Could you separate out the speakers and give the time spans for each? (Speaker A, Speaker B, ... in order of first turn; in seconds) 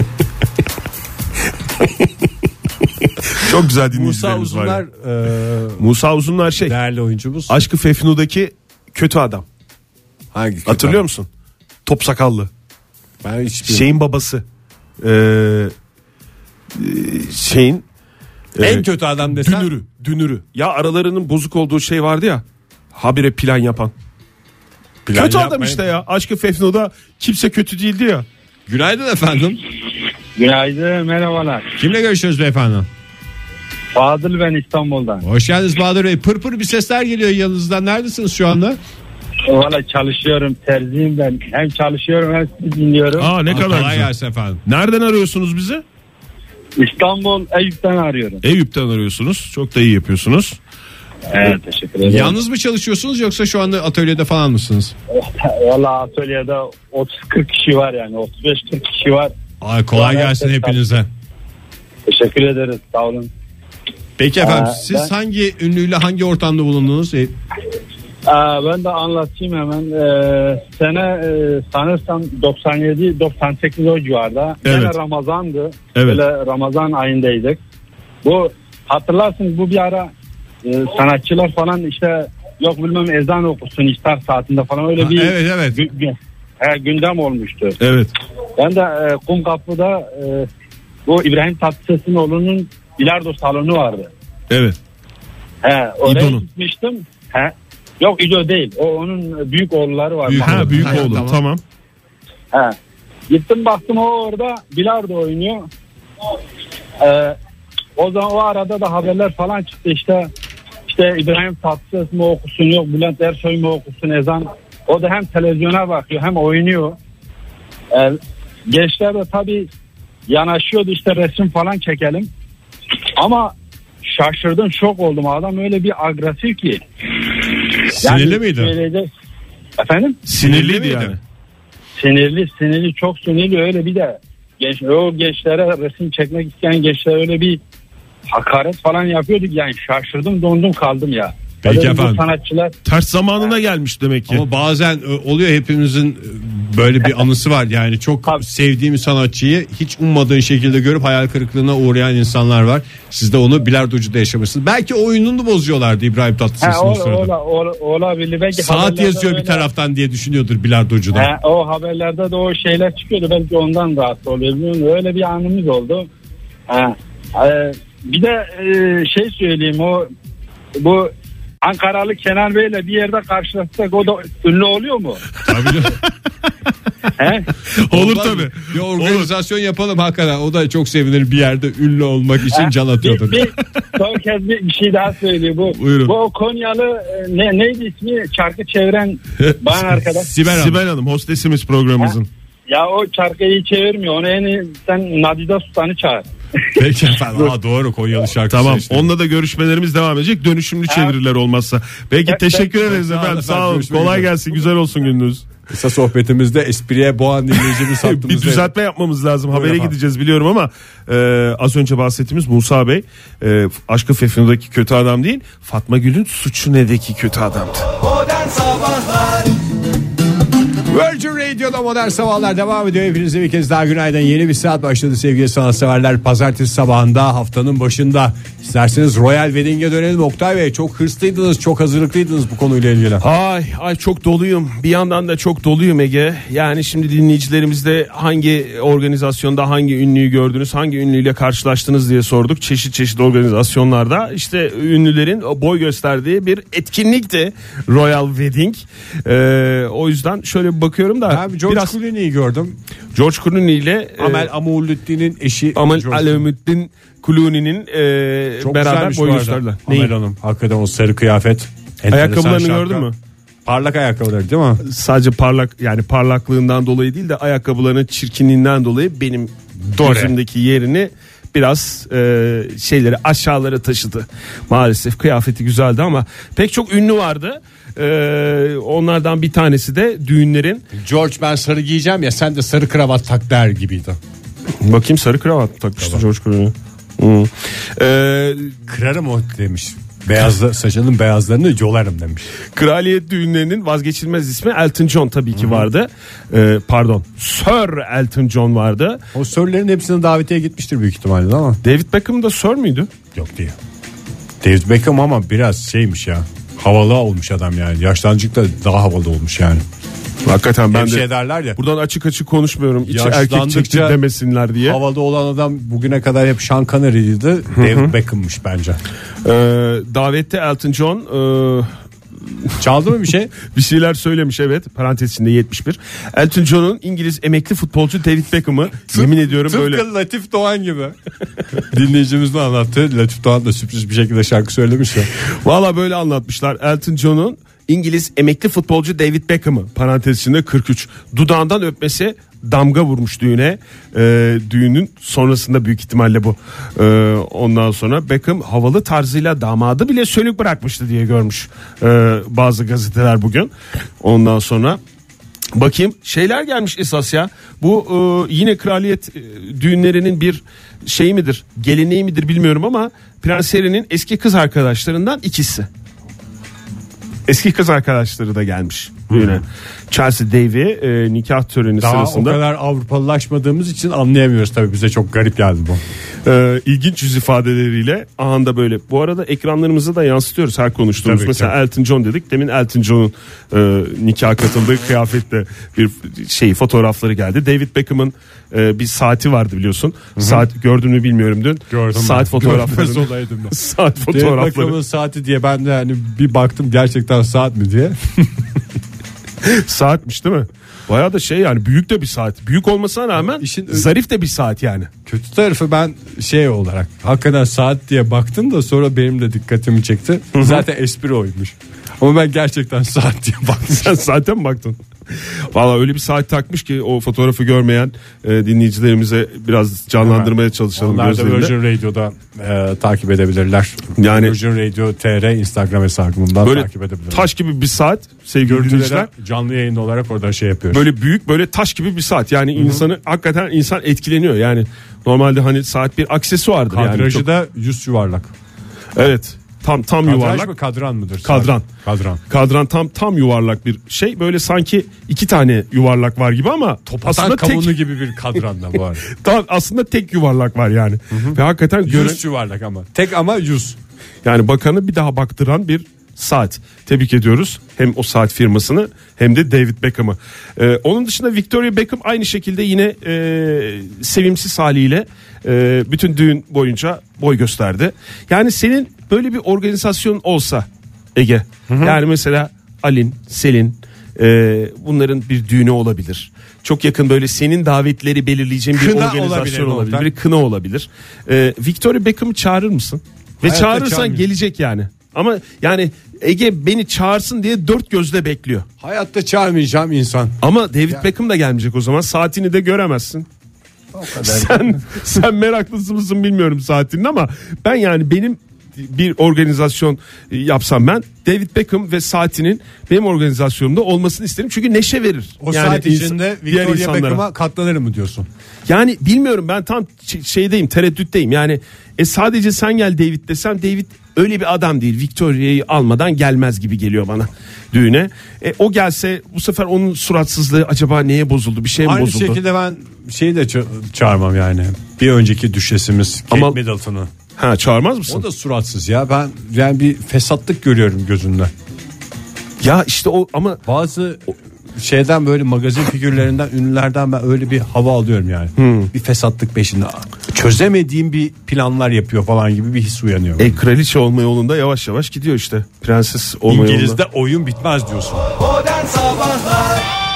Speaker A: 3.3-4.8, 5.8-6.7, 7.5-9.5, 10.7-11.3, 11.9-12.5, 13.7-14.4, 15.0-15.7, 16.8-17.9, 18.6-23.9, 25.1-28.2, 43.2-44.1, 44.6-45.8, 48.4-50.6, 74.6-75.0, 76.0-76.2, 87.8-88.1, 94.5-94.8, 96.0-96.4, 100.4-101.6, 130.2-131.2, 142.8-144.4, 175.4-175.9, 177.8-179.3, 185.7-186.1, 190.4-192.3, 198.5-205.5, 208.0-217.9, 233.2-252.0, 253.1-254.5, 255.8-260.1, 262.1-263.1, 264.8-280.9, 284.8-288.8, 292.7-299.2, 301.8-303.1, 310.4-315.0, 317.8-318.1, 319.4-321.9, 323.6-330.0, 335.6-355.0, 355.7-365.9, 367.5-372.6, 376.4-395.0, 399.6-405.1, 410.5-410.8, 413.9-415.0, 415.7-421.7, 424.2-424.6, 426.6-429.3, 430.9-437.5, 439.2-440.7, 441.4-441.9, 442.5-448.0, 449.3-452.4, 454.4-488.9, 490.6-493.5, 494.4-507.4, 508.9-522.6, 526.5-526.8, 527.6-528.5, 532.8-533.8, 538.8-539.1, 543.6-547.2
Speaker B: 3.9-5.9, 6.6-7.6, 10.3-11.0, 13.2-13.9, 18.6-19.8, 25.0-25.8, 28.7-29.6, 31.8-32.9, 35.2-38.8, 43.5-44.6, 52.0-54.9, 59.6-61.1, 64.2-67.3, 85.0-85.8, 100.2-101.4, 127.9-128.7, 130.4-131.2, 141.6-142.2, 144.3-157.3, 158.5-161.3, 175.4-176.0, 177.9-183.5, 190.2-190.8, 196.8-199.1, 202.6-204.3, 205.7-208.7, 209.5-209.9, 220.9-233.2, 251.3-252.8, 254.2-256.5, 258.6-263.1, 263.6-264.8, 270.0-270.3, 280.9-284.2, 288.9-292.5, 295.6-295.9, 299.3-301.8, 303.4-303.8, 304.6-309.8, 310.9-311.8, 313.0-314.2, 314.8-319.0, 322.8-323.5, 329.1-331.1, 331.9-335.3, 369.3-369.6, 372.0-376.0, 381.2-381.7, 390.4-390.6, 391.9-398.6, 403.4-404.1, 405.2-414.1, 420.2-427.5, 428.6-431.0, 432.8-433.1, 436.9-438.5, 440.2-442.4, 447.1-449.2, 451.3-454.0, 471.9-472.2, 478.9-480.3, 483.6-484.5, 489.0-490.6, 494.1-495.2, 505.6-508.5, 522.0-527.3, 528.3-531.7, 533.8-543.8, 546.7-548.5
Speaker C: 30.4-31.7, 33.9-35.2, 39.5-43.3, 46.8-48.4, 51.3-52.4, 55.1-59.3, 59.9-60.8, 62.1-63.3, 64.4-65.1, 68.2-77.6, 78.2-80.1, 80.6-87.8, 88.6-90.5, 91.1-94.1, 95.6-101.0, 103.3-105.7, 107.0-107.4, 108.0-110.3, 110.9-117.0, 117.9-119.7, 120.3-122.3, 123.2-126.8, 128.0-129.1, 129.8-130.2, 132.0-137.6, 138.3-142.7, 156.6-159.6, 161.1-166.1, 166.7-170.1, 170.8-171.1, 171.6-175.2, 177.2-177.5, 182.5-190.3, 192.7-196.3, 200.9-201.1, 202.3-202.6